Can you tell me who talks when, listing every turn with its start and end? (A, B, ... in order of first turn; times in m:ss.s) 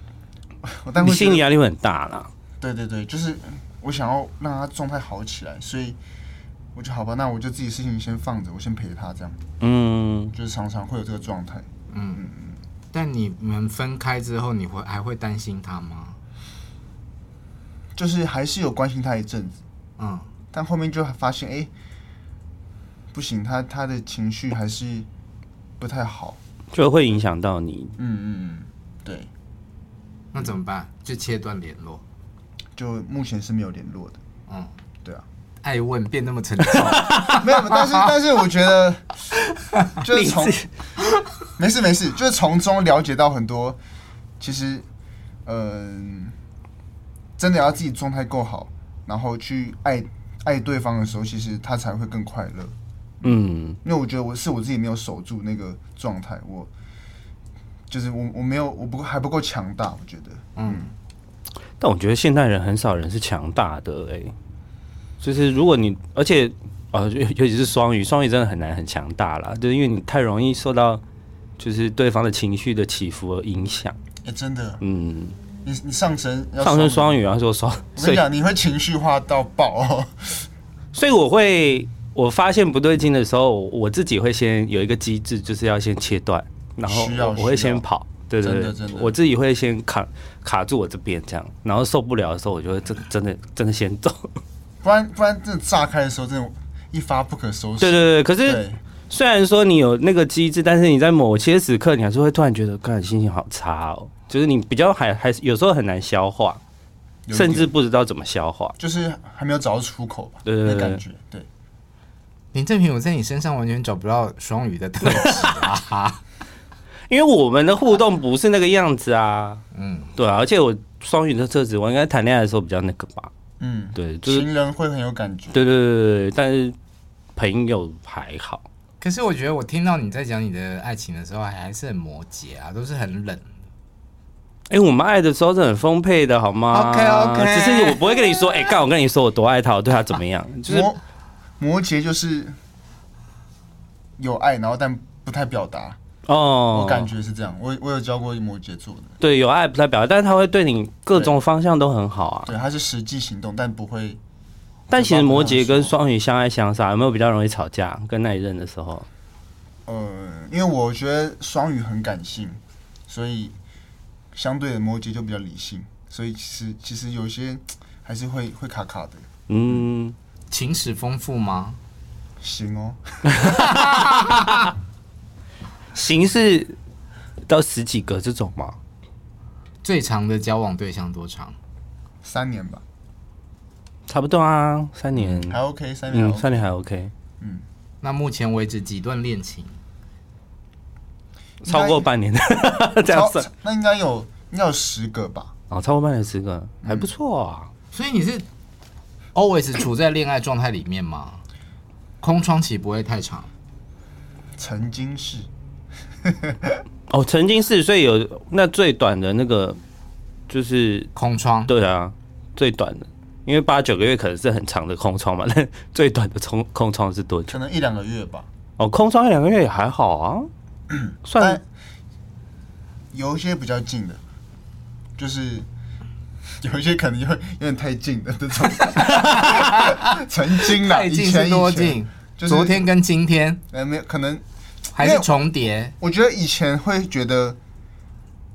0:00.6-0:01.4 A
0:01.0-0:02.3 B
0:02.6-0:06.0 A
0:06.7-0:09.4 A
0:09.6-0:10.3 B
0:10.3-0:12.6 A
0:11.9-0:12.2 C
0:12.9-0:16.2 C
0:17.9-0:19.6 A
0:20.0-0:20.3 C
0:20.5-0:21.7 A
0:23.1-0:25.1 A
0:25.8-0:26.4 A
0:26.7-0:28.0 B
0:28.0-0:29.3 A
0:30.3-0:32.0 C
0:32.8-0:34.2 A
0:34.5-0:34.7 C
0:35.6-0:38.0 C
0:37.0-0:37.3 B
0:37.3-0:39.2 A
0:40.0-0:40.6 A
0:40.1-0:40.7 B
0:41.6-0:43.8 A
0:44.4-0:44.8 A
0:45.4-0:46.3 A
0:47.4-0:56.7 A
0:53.2-0:53.8 B
0:57.9-1:00.9 A
1:00.6-1:00.9 C
1:01.8-1:04.3 B
1:05.2-1:11.0 B
1:11.6-1:14.0 B
1:14.2-1:14.8 A
1:14.8-1:15.4 B
1:15.6-1:17.2 A
1:16.6-1:18.2 B
1:18.0-1:20.5 A
1:20.9-1:34.3 B
1:26.8-1:27.8 A
1:28.4-1:29.1 A
1:34.8-1:38.8 A
1:37.8-1:46.6 B
1:47.3-1:47.7 A
1:47.3-1:48.8 B
1:48.8-1:51.5 A
1:50.4-1:51.0 B
1:52.5-1:56.2 C
1:55.0-1:55.5 B
1:57.1-1:59.6 B
1:59.7-2:00.1 C
2:00.2-2:03.3 B
2:03.6-2:05.6 A
2:04.0-2:04.5 B
2:05.5-2:06.8 B
2:07.4-2:08.6 B
2:09.0-2:13.6 C
2:14.7-2:20.9 B
2:16.7-2:18.7 C
2:20.6-2:21.0 A
2:21.6-2:22.6 A
2:24.2-2:26.0 A
2:26.3-2:27.1 B
2:26.7-2:29.2 A
2:29.2-2:32.5 B
2:32.4-2:34.2 A
2:34.9-2:39.1 B
2:34.9-2:35.9 A
2:39.8-2:43.5 A
2:44.3-2:49.3 A
2:49.5-2:50.2 B
2:50.5-2:51.8 C
2:52.4-2:53.6 A
2:53.3-2:54.7 B
2:53.7-2:54.4 C
2:55.9-2:56.8 B
2:57.5-2:58.8 B
2:59.8-3:01.6 C
3:02.2-3:02.8 A
3:04.1-3:07.1 B
3:05.2-3:06.7 A
3:07.4-3:07.6 A
3:08.0-3:09.8 C
3:11.6-3:13.4 B
3:11.6-3:12.0 A
3:13.0-3:15.5 A
3:15.7-3:17.7 B
3:16.8-3:17.1 A
3:17.9-3:18.4 C
3:19.3-3:21.4 C
3:22.2-3:23.5 C
3:24.6-3:25.5 A
3:26.2-3:26.8 A
3:27.1-3:29.8 B
3:30.5-3:31.1 B
3:31.1-3:31.7 C
3:31.7-3:37.6 B
3:37.5-3:38.5 A
3:38.8-3:40.5 B
3:40.9-3:41.6 A
3:41.3-3:41.6 B
3:43.1-3:44.2 A
3:45.2-3:45.7 A
3:46.6-3:52.9 A
3:48.8-3:53.6 C
3:53.7-3:54.4 A
3:54.9-3:55.9 C
3:55.0-3:55.3 A
3:56.0-3:57.6 A